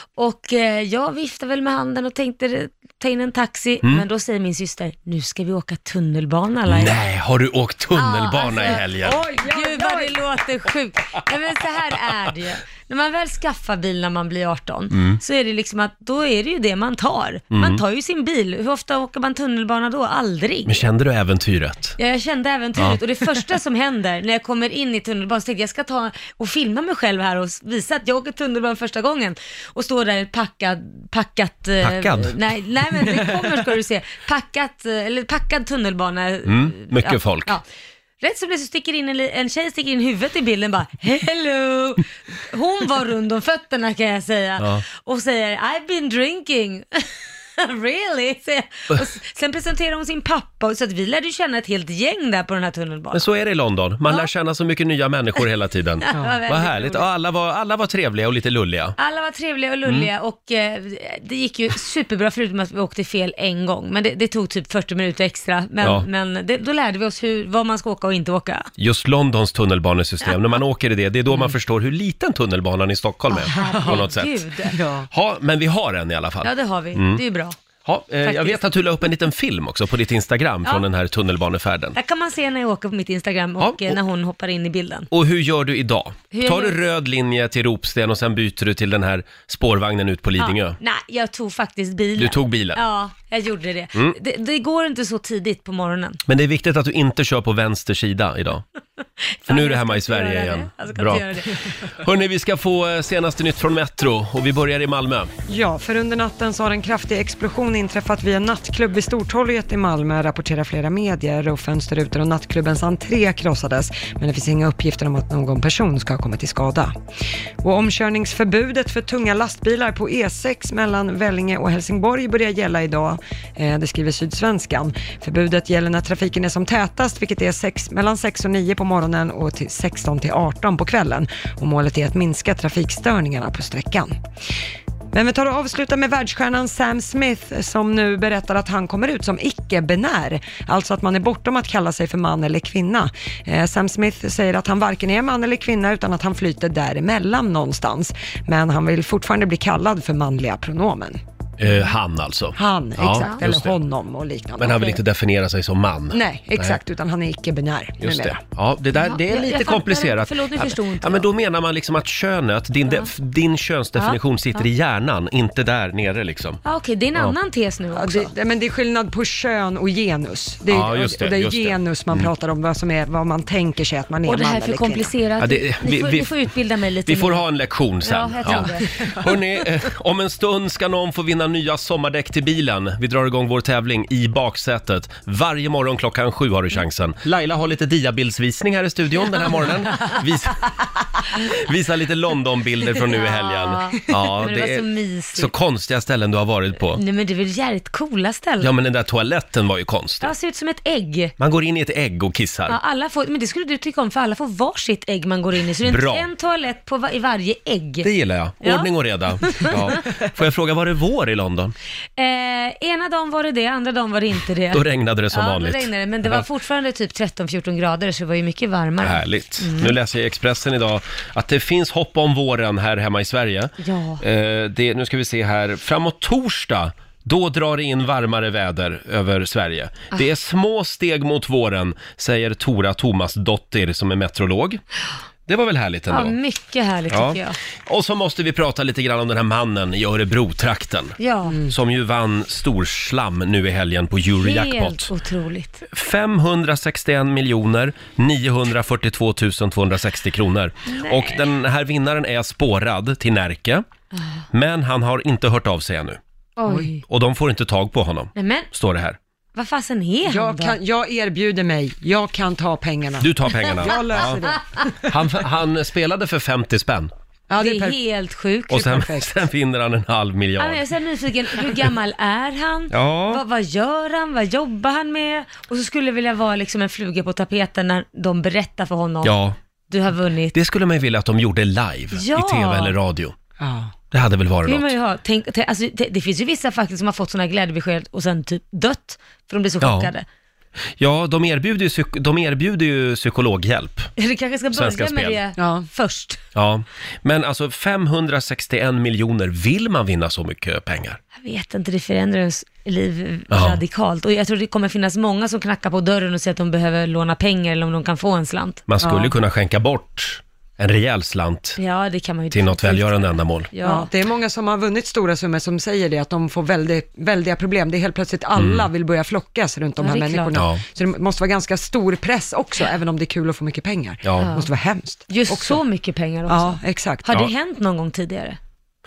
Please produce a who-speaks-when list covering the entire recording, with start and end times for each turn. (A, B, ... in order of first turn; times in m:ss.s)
0:00.2-0:07.0 A
0:06.7-0:09.2 B
0:07.9-0:08.8 A
0:08.8-0:10.2 C
0:09.4-0:20.9 A
0:14.9-0:15.2 B
0:17.5-0:17.8 B
0:20.7-0:22.0 B
0:22.0-0:37.6 A
0:31.8-0:32.5 B
0:36.4-0:37.6 B
0:38.2-0:53.2 A
0:53.1-0:59.0 B
0:56.0-0:57.1 A
0:56.1-0:56.4 C
0:59.0-1:08.7 A
1:08.8-1:14.4 B
1:13.3-1:14.8 A
1:13.5-1:14.0 C
1:14.6-1:15.1 C
1:15.1-1:17.2 B
1:16.4-1:17.5 A
1:17.8-1:22.0 B
1:18.2-1:18.6 A
1:22.0-1:25.1 A
1:23.6-1:24.0 B
1:25.1-1:30.8 B
1:26.3-1:26.8 A
1:30.4-1:36.2 A
1:32.2-1:32.8 B
1:36.3-1:38.6 B
1:39.4-1:41.8 A
1:39.5-1:41.3 B
1:42.0-1:45.3 B
1:45.5-1:56.9 C
1:57.6-2:14.2 C
2:15.1-2:31.2 C
2:31.6-2:33.8 B
2:32.6-2:35.0 C
2:34.6-2:36.8 B
2:36.1-2:38.4 C
2:38.0-2:46.6 B
2:39.0-2:41.3 A
2:44.0-2:44.6 A
2:46.6-2:48.3 A
2:47.9-2:55.1 C
2:50.7-2:52.3 B
2:54.2-2:57.4 A
2:55.4-2:56.3 B
2:57.1-3:10.7 B
2:58.0-2:58.9 A
3:11.3-3:17.0 B
3:12.9-3:15.5 A
3:16.9-3:18.7 A
3:18.6-3:20.3 B
3:20.2-3:21.3 A
3:21.4-3:22.8 B
3:22.7-3:28.1 A
3:25.8-3:26.3 B
3:28.0-3:31.7 B
3:28.6-3:28.9 A
3:29.4-3:29.9 A
3:32.2-3:39.9 A
3:34.7-3:36.4 B
3:39.0-3:54.8 B
3:43.8-3:44.2 A
3:55.4-3:56.3 B
3:56.1-3:57.6 A
3:57.1-4:05.1 B
4:01.2-4:01.6 A
4:04.4-4:05.8 A
4:05.9-4:13.8 B
4:10.9-4:11.4 A
4:14.1-4:14.4 A
4:14.5-4:16.2 B
4:16.6-4:17.0 A
4:16.6-4:16.9 C
4:17.1-4:19.2 B
4:18.4-4:18.7 A
4:19.5-4:20.8 A
4:20.2-4:24.9 C
4:23.2-4:24.4 B
4:25.0-4:27.1 B
4:27.5-4:28.0 C
4:27.6-4:29.0 A
4:28.7-4:29.3 C
4:28.7-4:30.8 B
4:30.6-4:39.4 A
4:32.9-4:33.4 B
4:39.2-4:39.6 B
4:39.9-4:40.6 A
4:40.5-4:43.3 B
4:42.1-4:42.9 A
4:43.6-4:43.9 C
4:44.1-4:44.9 B
4:44.6-4:50.2 A
4:49.8-4:50.1 B
4:51.0-4:54.1 B
4:54.2-4:56.4 A
4:54.7-4:55.4 B
4:55.6-4:55.8 C
4:56.5-5:01.2 B
5:01.3-5:08.8 A
5:03.5-5:03.8 B
5:08.9-5:11.8 B
5:09.0-5:09.3 C
5:11.8-5:14.1 A
5:12.5-5:13.7 B
5:13.8-5:25.8 C
5:18.6-5:18.9 B
5:20.0-5:20.5 A
5:20.5-5:20.8 B
5:24.2-5:24.5 B
5:24.4-5:24.7 A
5:25.3-5:28.6 A
5:26.5-5:27.3 C